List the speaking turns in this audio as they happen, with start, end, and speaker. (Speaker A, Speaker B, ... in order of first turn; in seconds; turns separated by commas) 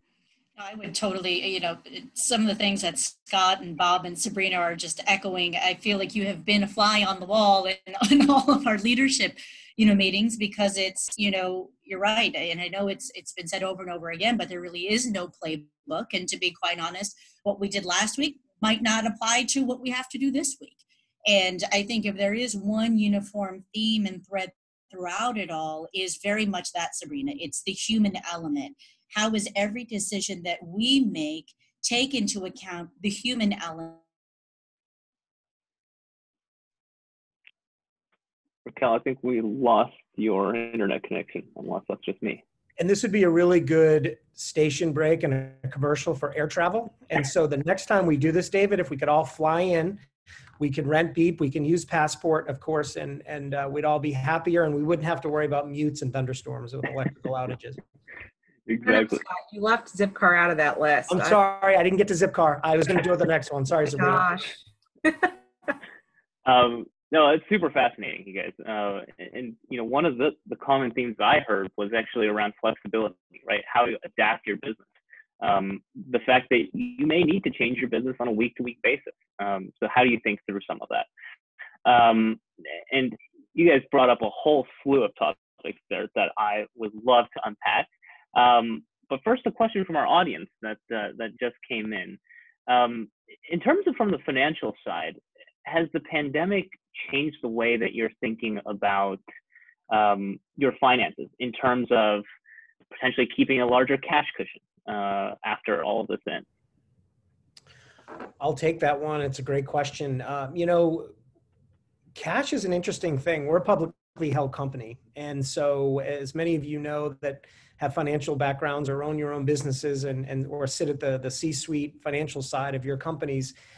Speaker A: 0.6-34.0, Speaker B: 38.7-42.4, Speaker C: 42.8-50.0, Speaker C: 50.6-57.8, Speaker B: 58.7-59.2, Speaker D: 58.9-61.4, Speaker C: 61.1-64.4, Speaker D: 63.9-65.3, Speaker B: 66.5-74.9, Speaker B: 75.4-81.1, Speaker B: 81.8-99.2, Speaker B: 99.9-102.2, Speaker B: 102.9-106.5, Speaker C: 108.4-111.1, Speaker C: 112.2-123.5